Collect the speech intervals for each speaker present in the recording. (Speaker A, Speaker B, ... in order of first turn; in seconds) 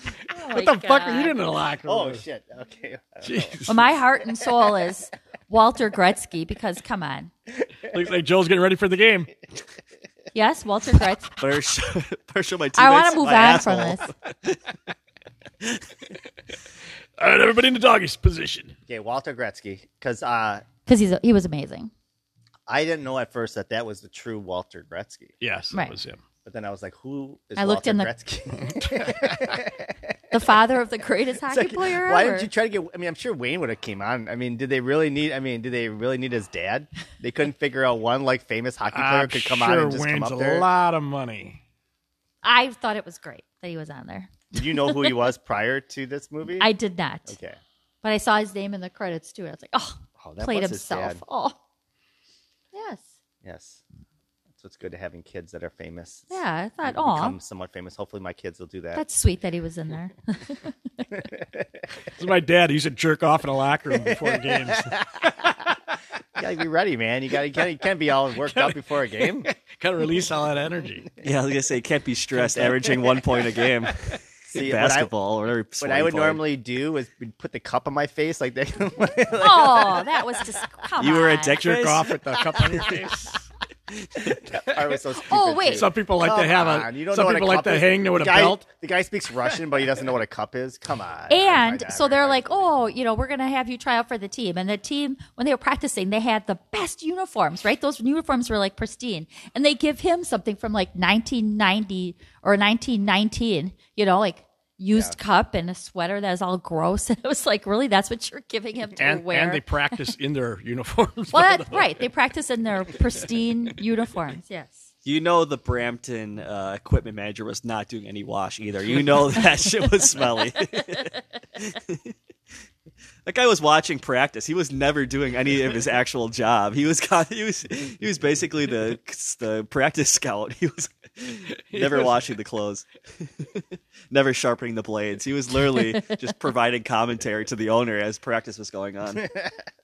Speaker A: 0.3-1.4, 3.7-7.3, 10.3-11.4, 12.8-14.1, 20.9-21.9, 27.6-28.1, 30.3-32.5, 42.4-45.1, 46.6-47.4, 48.0-51.5, 52.7-53.1, 56.3-57.4, 58.9-60.7, 79.3-81.6, 85.2-85.9, 91.3-109.6, 111.3-114.9
Speaker B: 0.4-2.2, 3.2-3.9, 7.9-9.3, 17.2-18.7, 25.4-26.2, 38.9-41.6, 62.1-65.7, 69.5-71.1, 81.5-83.4, 85.6-88.6, 109.0-111.9, 131.7-132.2
Speaker C: 1.8-3.9, 18.9-20.6, 22.7-25.3, 26.4-30.5, 31.5-40.7, 44.5-46.7, 47.3-47.6, 50.2-51.2, 53.4-53.8, 54.5-59.0, 61.2-61.8, 64.2-65.5, 66.4-69.5, 74.5-75.1, 75.8-80.4, 82.5-83.2, 84.2-92.7
Speaker D: 11.4-14.5, 71.2-76.4, 81.0-82.1, 115.0-122.1, 123.2-139.3